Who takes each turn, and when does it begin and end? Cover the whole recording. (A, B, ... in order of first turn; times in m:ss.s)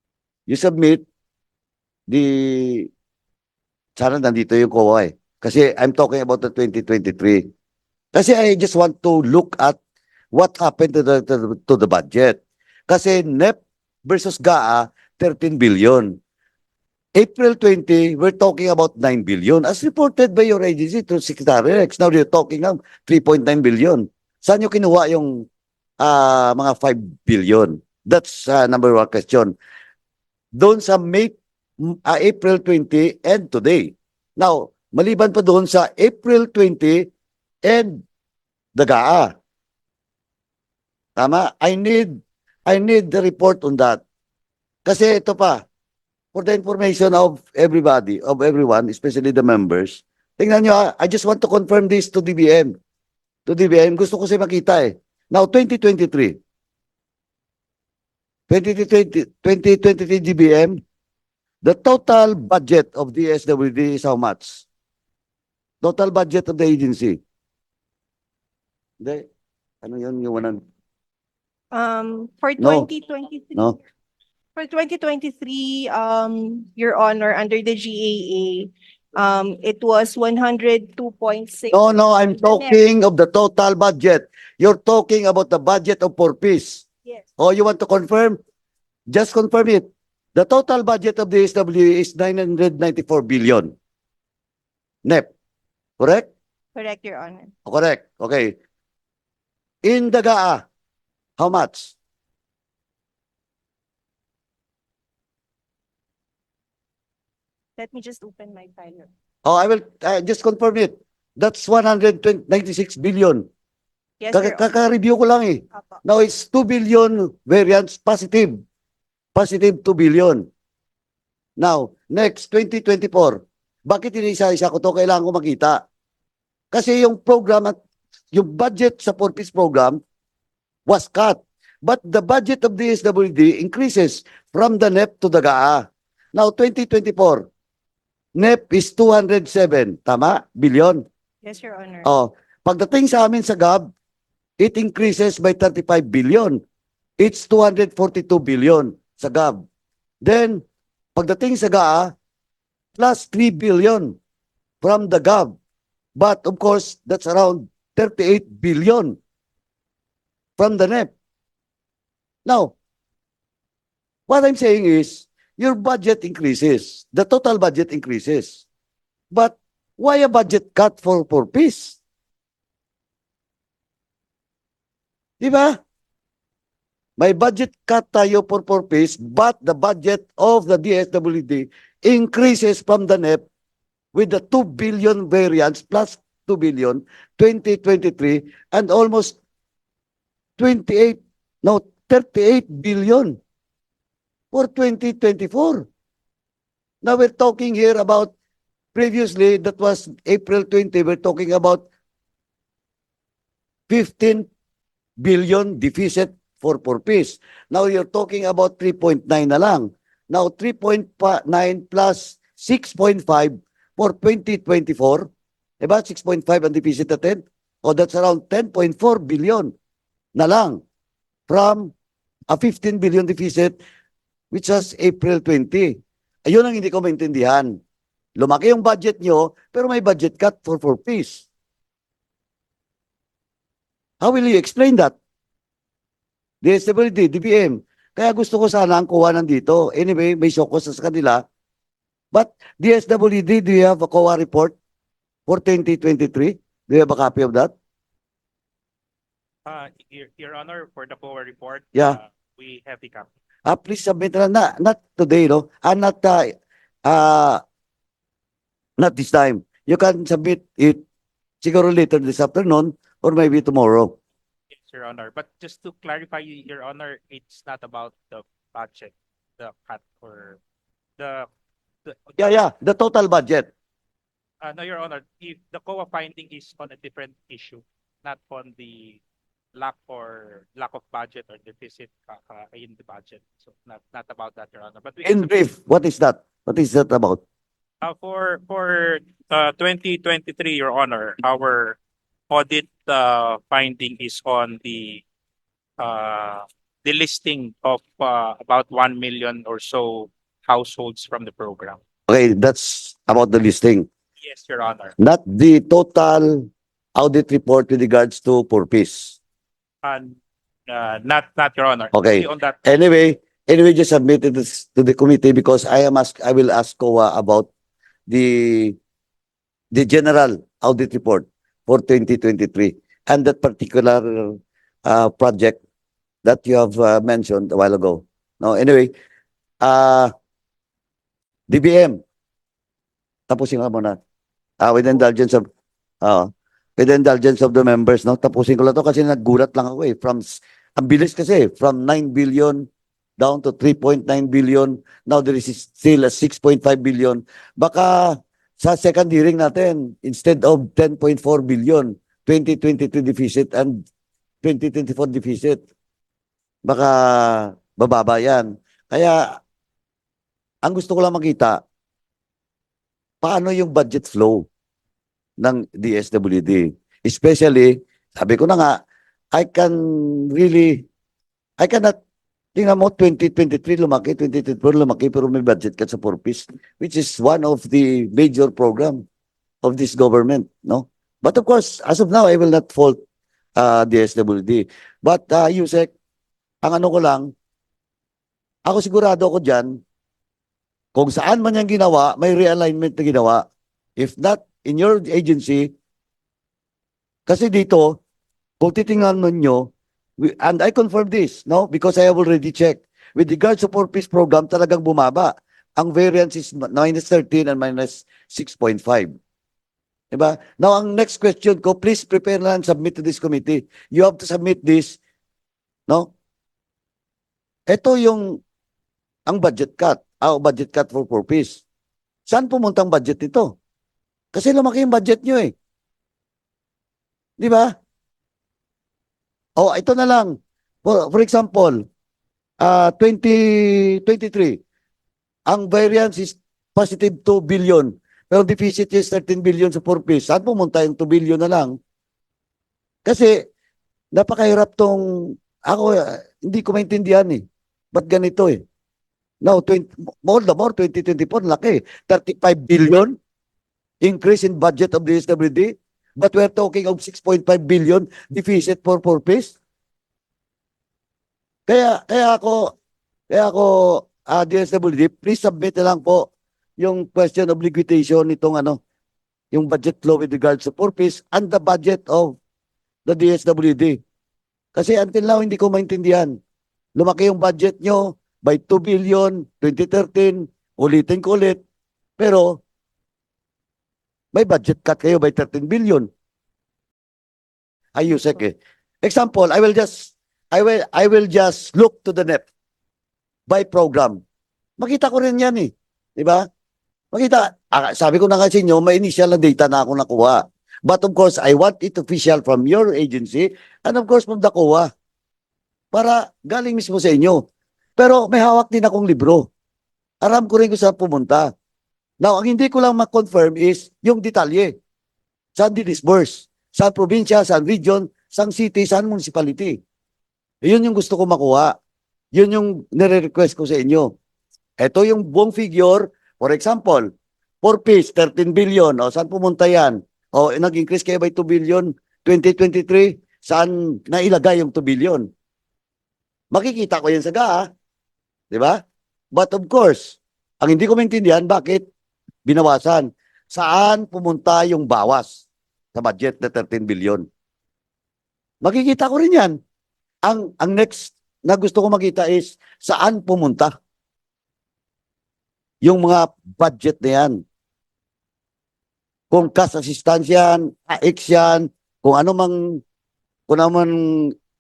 0:00.5-0:01.0 A
0:02.1-0:02.9 A
0:04.0-0:07.4 A
0:08.1-0:09.8 A
0:10.3-0:16.2 A
0:17.2-0:25.5 A
0:26.0-0:29.5 A
0:30.6-0:37.1 A
0:37.6-0:38.0 A
0:38.8-0:39.3 A
0:41.2-0:44.0 A
0:44.8-0:45.6 A
0:46.3-0:52.7 A
0:53.5-0:56.4 A
0:58.5-1:00.8 A
1:01.6-1:04.6 A
1:05.8-1:07.2 A
1:09.0-1:09.3 A
1:09.8-1:10.6 A
1:11.7-1:13.8 B
1:12.6-1:12.9 A
1:14.6-1:22.8 B
1:21.7-1:26.8 A
1:27.4-1:28.4 A
1:29.1-1:29.8 A
1:30.4-1:33.7 A
1:36.0-1:36.3 A
1:36.8-1:37.5 B
1:37.7-1:38.6 A
1:39.8-1:40.6 A
1:41.4-1:41.9 A
1:47.8-1:49.1 B
1:49.4-1:53.4 A
1:54.2-1:54.7 B
1:54.3-1:58.6 A
1:55.7-1:56.0 B
1:59.4-2:00.4 A
2:01.6-2:05.8 A
2:06.7-2:07.8 A
2:08.3-2:10.0 A
2:10.9-2:15.8 A
2:16.3-2:17.5 A
2:18.4-2:21.0 A
2:21.4-2:22.1 B
2:22.0-2:23.9 A
2:24.6-2:26.6 A
2:27.2-2:29.6 A
2:30.2-2:30.6 A
2:31.2-2:32.1 A
2:33.0-2:34.2 A
2:34.8-2:35.6 A
2:36.2-2:39.2 A
2:40.6-2:41.1 A
2:42.5-2:42.7 A
2:44.3-2:48.6 A
2:49.3-2:52.0 A
2:55.4-2:55.8 A
2:57.2-3:03.4 A
3:04.1-3:09.4 A
3:10.6-3:13.4 A
3:14.5-3:15.9 A
3:17.0-3:18.3 A
3:18.9-3:21.8 A
3:23.9-3:24.5 A
3:25.2-3:35.3 A
3:35.8-3:39.7 A
3:40.4-3:40.8 A
3:41.5-3:41.9 A
3:42.5-3:43.8 A
3:44.5-3:47.8 A
3:48.4-3:51.5 A
3:54.2-3:55.1 A
3:56.6-4:01.4 A
4:02.3-4:04.7 A
4:05.5-4:07.7 A
4:09.7-4:13.3 C
4:13.7-4:16.5 A
4:17.0-4:17.6 A
4:19.0-4:21.0 A
4:21.6-4:24.1 A
4:24.7-4:30.6 C
4:31.2-4:31.5 C
4:32.1-4:32.6 C
4:32.4-4:33.7 A
4:34.6-4:39.2 C
4:39.8-4:45.6 C
4:45.2-4:47.4 A
4:48.0-4:52.0 C
4:52.5-4:55.2 C
4:56.0-5:02.0 C
5:02.3-5:04.1 A
5:04.4-5:05.1 C
5:05.2-5:09.4 A
5:10.0-5:10.4 C
5:10.9-5:13.0 C
5:12.1-5:17.7 A
5:18.3-5:19.0 A
5:19.9-5:25.8 A
5:26.4-5:29.1 A
5:29.8-5:30.3 A
5:31.7-5:32.2 A
5:33.5-5:34.2 A
5:34.8-5:35.7 A
5:36.2-5:42.9 A
5:43.4-5:54.0 A
5:54.6-5:55.8 A
5:56.8-5:59.6 A
6:00.8-6:01.8 A
6:03.4-6:04.7 A
6:05.6-6:09.0 A
6:09.5-6:11.0 A
6:11.8-6:12.2 A
6:12.8-6:19.2 A
6:19.8-6:23.2 A
6:23.8-6:26.1 A
6:26.8-6:27.5 A
6:28.9-6:30.0 A
6:31.2-6:33.6 A
6:34.2-6:35.9 A
6:37.5-6:38.2 A
6:38.8-6:49.4 A
6:50.3-6:55.2 A
6:57.9-6:58.6 A
6:59.5-7:01.8 A
7:02.5-7:03.7 A
7:04.5-7:05.7 A
7:07.6-7:07.9 A
7:09.8-7:12.0 A
7:12.8-7:14.8 A
7:15.7-7:21.9 A
7:23.2-7:23.6 A
7:24.3-7:27.6 A
7:28.1-7:28.8 A
7:29.6-7:33.4 A
7:34.2-7:39.7 A
7:41.9-7:42.9 A
7:43.5-7:46.5 A
7:47.0-7:49.0 A
7:49.7-7:52.6 A
7:53.3-7:54.2 A
7:55.0-7:56.6 A
7:57.2-8:01.8 A
8:02.4-8:02.8 A
8:04.5-8:06.3 A
8:08.2-8:12.6 A
8:13.7-8:14.4 A
8:15.0-8:16.6 A
8:17.3-8:25.1 A
8:26.1-8:27.6 A
8:28.2-8:29.7 A
8:30.4-8:31.7 A
8:32.4-8:34.9 A
8:35.8-8:40.0 A
8:40.8-8:41.9 A
8:42.5-8:44.3 A
8:45.0-8:47.3 A
8:47.8-8:55.5 A
8:56.7-8:57.9 A
8:58.7-8:59.0 A
8:59.5-9:02.0 A
9:02.6-9:07.5 A
9:08.8-9:09.8 A
9:10.5-9:13.9 A
9:16.0-9:17.6 A
9:19.5-9:23.0 A
9:23.7-9:24.5 A